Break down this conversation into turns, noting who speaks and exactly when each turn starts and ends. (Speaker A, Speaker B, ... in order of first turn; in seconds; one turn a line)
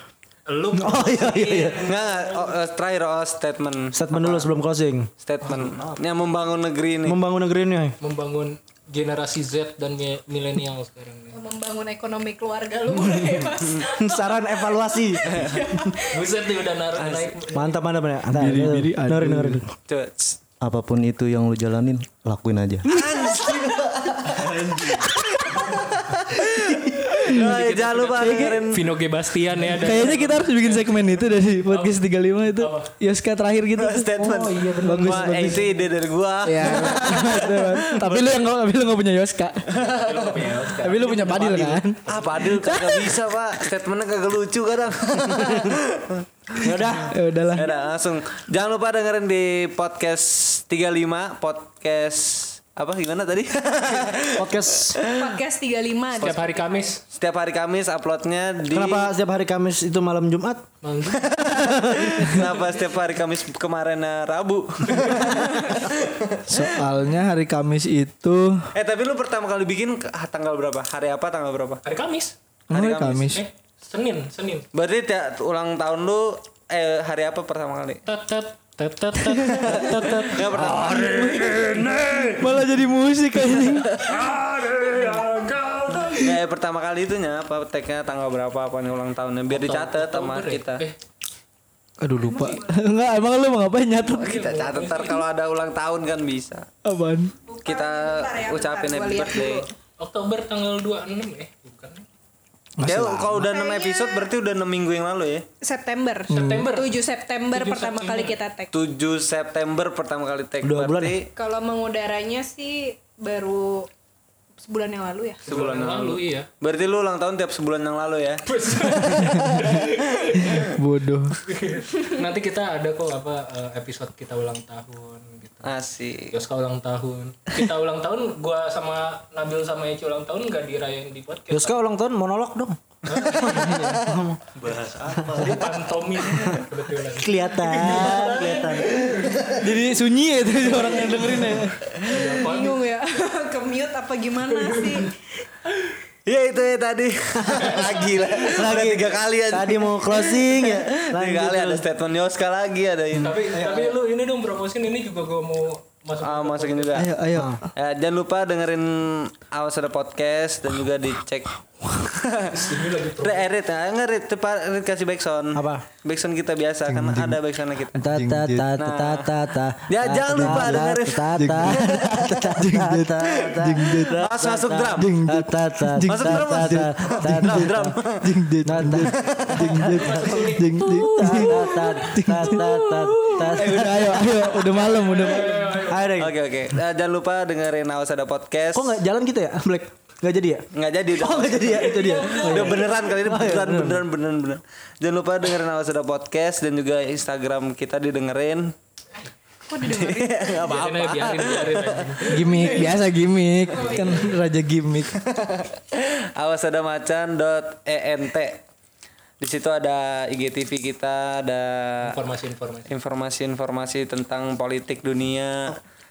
Speaker A: 0.5-2.5
Speaker B: 0.8-1.8
Speaker C: 1.8-4.5
Speaker B: 3.9-6.0
Speaker C: 5.2-7.2
Speaker B: 7.1-8.0
Speaker A: 8.0-11.4
Speaker D: 11.3-16.2
Speaker B: 13.8-16.0
Speaker A: 16.1-17.8
Speaker B: 17.5-19.6
Speaker E: 18.3-19.7
Speaker C: 19.9-20.4
Speaker F: 20.6-22.9
Speaker C: 22.9-29.0
Speaker B: 23.5-24.7
Speaker E: 25.2-25.5
Speaker E: 27.1-27.5
Speaker A: 27.3-32.0
Speaker B: 28.3-28.6
Speaker E: 29.6-34.1
Speaker A: 32.5-32.9
Speaker C: 33.8-38.2
Speaker A: 34.1-35.9
Speaker E: 34.8-35.6
Speaker E: 36.5-39.9
Speaker C: 39.8-40.5
Speaker A: 39.8-42.6
Speaker E: 40.8-42.0
Speaker C: 42.1-46.9
Speaker B: 46.6-47.1
Speaker E: 47.1-47.7
Speaker C: 47.6-55.4
Speaker B: 54.4-55.0
Speaker D: 55.0-56.9
Speaker A: 56.2-57.0
Speaker C: 57.1-59.1
Speaker B: 58.7-60.6
Speaker A: 60.8-61.3
Speaker C: 61.2-66.6
Speaker B: 61.4-62.5
Speaker A: 62.4-62.9
Speaker A: 64.8-65.8
Speaker E: 66.5-68.7
Speaker C: 68.7-71.8
Speaker A: 71.8-72.3
Speaker E: 72.7-73.4
Speaker C: 72.7-73.3
Speaker A: 73.3-74.7
Speaker C: 74.7-78.0
Speaker A: 78.1-82.4
Speaker C: 79.6-82.4
Speaker E: 82.4-84.0
Speaker A: 83.7-86.3
Speaker C: 86.2-90.8
Speaker A: 89.5-91.0
Speaker E: 92.0-94.3
Speaker D: 92.2-92.8
Speaker A: 94.1-95.2
Speaker C: 94.1-96.7
Speaker E: 96.8-97.3
Speaker D: 97.5-99.7
Speaker C: 97.6-99.7
Speaker A: 100.0-102.1
Speaker E: 102.8-103.0
Speaker B: 102.8-103.4
Speaker C: 102.8-105.5
Speaker D: 103.4-104.3
Speaker D: 105.6-108.7
Speaker A: 106.3-106.9
Speaker E: 106.4-106.7
Speaker A: 107.5-108.4
Speaker C: 108.7-111.3
Speaker B: 110.6-111.2
Speaker D: 111.4-113.9
Speaker D: 114.6-115.5
Speaker A: 115.5-116.5
Speaker C: 115.5-118.4
Speaker A: 118.5-120.7
Speaker E: 119.1-119.7
Speaker E: 120.6-121.4
Speaker A: 121.4-125.7
Speaker C: 125.6-126.3
Speaker A: 126.3-131.8
Speaker B: 131.5-134.4
Speaker A: 133.1-134.0
Speaker F: 134.6-135.8
Speaker B: 135.2-135.5
Speaker A: 135.4-139.4
Speaker B: 136.3-136.6
Speaker B: 137.2-139.1
Speaker E: 139.4-141.8
Speaker A: 140.7-141.4
Speaker A: 142.0-142.8
Speaker D: 142.1-145.1
Speaker A: 144.6-144.9
Speaker C: 146.3-153.4
Speaker B: 147.4-151.8
Speaker A: 153.2-157.1
Speaker C: 156.2-157.1
Speaker E: 157.0-157.6
Speaker B: 157.3-157.6
Speaker C: 157.8-168.0
Speaker A: 162.5-163.5
Speaker B: 165.6-165.8
Speaker E: 166.9-167.4
Speaker B: 167.9-178.0
Speaker E: 168.0-168.7
Speaker C: 168.8-169.3
Speaker C: 169.9-172.0
Speaker E: 170.4-170.8
Speaker E: 171.4-174.1
Speaker C: 173.9-175.1
Speaker E: 175.0-185.8
Speaker C: 176.0-179.8
Speaker B: 178.7-184.2
Speaker A: 179.8-186.2
Speaker B: 185.7-186.3
Speaker C: 186.2-189.0
Speaker B: 188.7-190.7
Speaker C: 190.7-198.7
Speaker B: 191.2-194.0
Speaker A: 191.6-192.9
Speaker D: 199.7-200.8
Speaker C: 199.8-202.2
Speaker A: 200.6-202.9
Speaker E: 202.3-205.1
Speaker D: 203.8-204.4
Speaker C: 205.2-208.6
Speaker C: 209.4-212.2
Speaker A: 212.0-212.9
Speaker C: 212.9-215.8